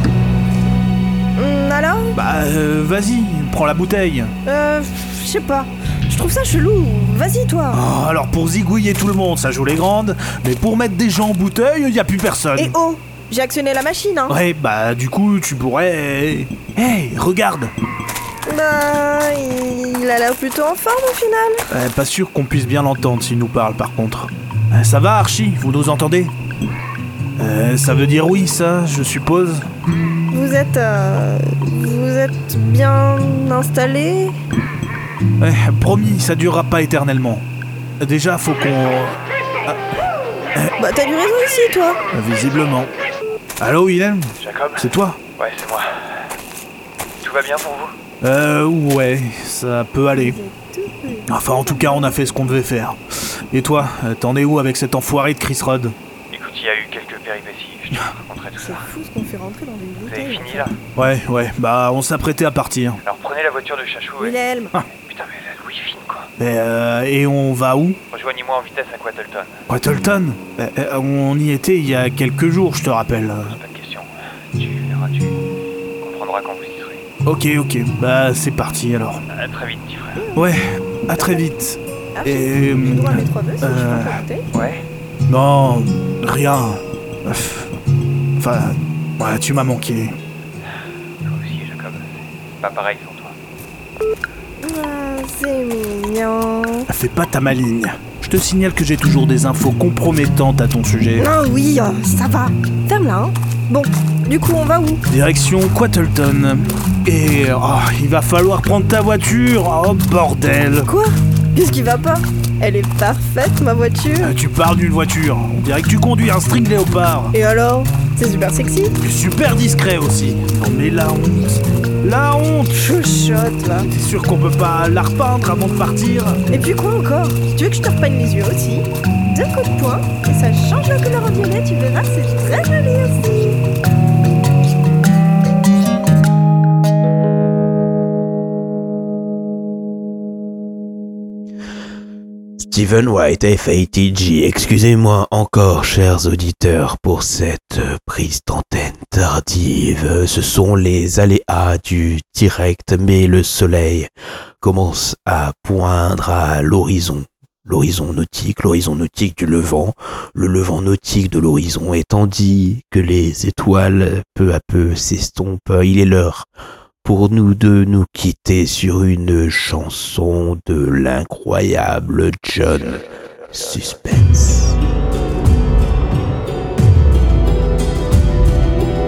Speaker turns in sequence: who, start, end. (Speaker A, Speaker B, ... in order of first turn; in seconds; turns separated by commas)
Speaker A: 1.4-2.1, Speaker B: 2.1-4.3, Speaker A: 4.5-7.8, Speaker B: 7.7-12.8, Speaker A: 12.5-14.4, Speaker B: 14.3-17.7, Speaker A: 18.5-21.6, Speaker B: 21.7-26.3, Speaker B: 27.4-29.6, Speaker A: 30.3-34.3, Speaker B: 35.4-37.4, Speaker B: 38.0-39.8, Speaker A: 40.8-42.0, Speaker B: 42.1-42.9, Speaker B: 43.6-45.2, Speaker C: 44.4-45.9, Speaker C: 47.2-47.9, Speaker B: 48.2-50.4, Speaker A: 50.1-52.2, Speaker B: 51.3-53.0, Speaker B: 53.5-55.9, Speaker C: 56.3-58.9, Speaker A: 58.6-60.7, Speaker C: 60.0-60.8, Speaker B: 61.0-63.0, Speaker C: 63.0-64.3, Speaker A: 64.2-64.7, Speaker C: 64.9-66.3, Speaker B: 66.4-68.0, Speaker C: 68.1-69.6, Speaker B: 69.7-73.6, Speaker C: 73.5-75.4, Speaker C: 76.0-77.0, Speaker B: 77.2-79.2, Speaker C: 79.3-80.2, Speaker A: 80.2-80.5, Speaker B: 80.3-84.2, Speaker A: 81.2-81.4, Speaker A: 82.1-84.4, Speaker C: 84.5-84.8, Speaker B: 85.3-87.7, Speaker B: 88.4-90.1, Speaker C: 91.2-92.1, Speaker C: 92.6-93.3, Speaker A: 94.6-96.9, Speaker B: 96.9-101.3, Speaker A: 101.1-105.0, Speaker B: 105.1-110.9, Speaker A: 110.8-114.3, Speaker B: 114.2-117.3, Speaker A: 117.3-119.0, Speaker B: 119.0-122.9, Speaker A: 122.7-123.9, Speaker B: 123.8-126.4, Speaker A: 126.5-133.5, Speaker D: 142.6-154.1, Speaker D: 154.6-166.4, Speaker D: 167.0-174.7